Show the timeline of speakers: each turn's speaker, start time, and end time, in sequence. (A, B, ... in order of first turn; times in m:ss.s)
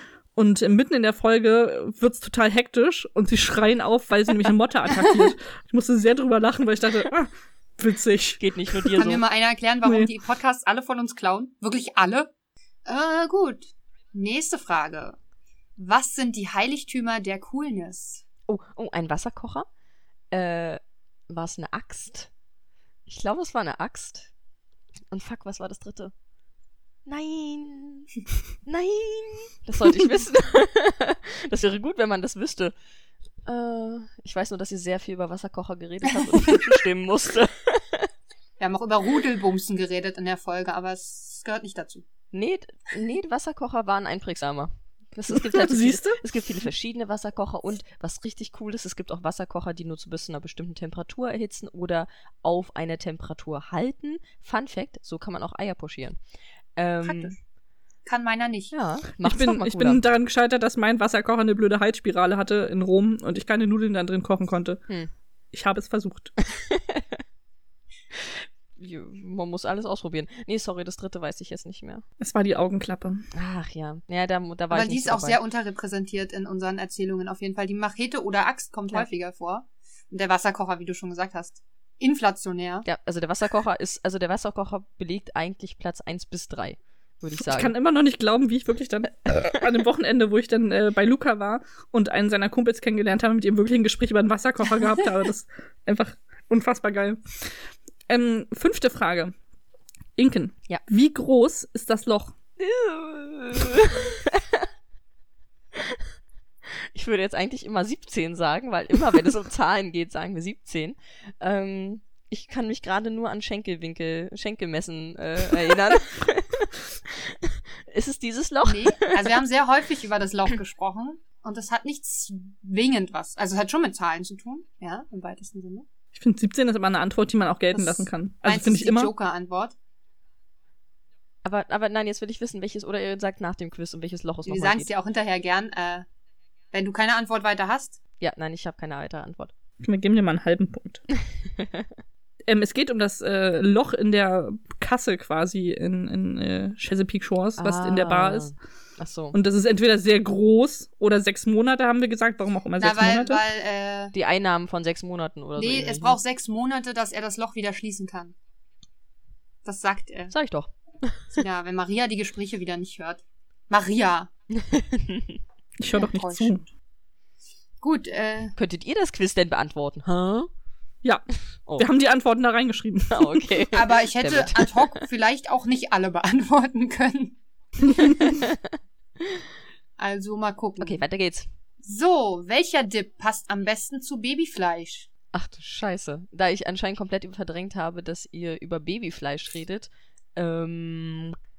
0:00.3-0:09.0 A
0:08.4-0:09.2 B
0:09.0-0:12.3 C
0:09.8-0:10.1 A
0:12.8-0:15.2 C
0:15.8-0:18.2 C
0:18.5-0:19.6 B
0:20.3-0:22.3 B
0:23.1-0:24.3 B
0:25.1-0:26.1 B
0:27.0-0:28.1 B
0:28.6-0:32.7 B
0:33.4-0:38.1 B
0:36.2-0:36.6 C
0:38.6-0:42.0 C
0:42.3-0:56.2 B
0:45.3-0:46.2 A
0:56.8-0:57.3 B
0:57.0-0:57.4 C
0:58.0-0:58.7 C
0:58.7-1:00.0 B
0:59.2-1:04.8 A
1:05.5-1:06.3 A
1:06.4-1:07.2 B
1:08.1-1:12.0 B
1:12.2-1:13.3 A
1:13.3-1:15.4 B
1:14.7-1:22.8 C
1:22.8-1:27.7 B
1:27.4-1:37.5 A
1:38.1-1:39.3 A
1:40.2-1:42.3 A
1:42.6-1:44.7 B
1:45.7-1:46.1 B
1:46.6-1:59.4 B
1:58.6-2:05.8 C
2:06.1-2:09.1 A
2:07.7-2:09.8 C
2:11.4-2:14.9 B
2:14.4-2:16.1 C
2:16.7-2:18.0 C
2:18.2-2:19.5 B
2:19.8-2:21.0 A
2:21.3-2:21.9 B
2:22.5-2:28.5 A
2:27.6-2:29.4 B
2:29.3-2:33.4 A
2:32.8-2:34.1 C
2:34.1-2:36.2 B
2:35.6-2:38.3 C
2:39.6-2:40.3 C
2:40.3-2:41.4 B
2:41.4-2:44.3 C
2:44.5-2:45.4 B
2:45.8-2:46.6 A
2:46.0-2:46.6 C
2:47.8-2:48.5 C
2:48.6-2:50.5 B
2:51.8-2:53.5 A
2:53.1-2:55.0 B
2:53.7-2:57.4 C
2:57.8-2:59.4 B
3:00.0-3:01.0 C
3:00.8-3:01.5 B
3:01.8-3:05.1 C
3:05.3-3:11.4 B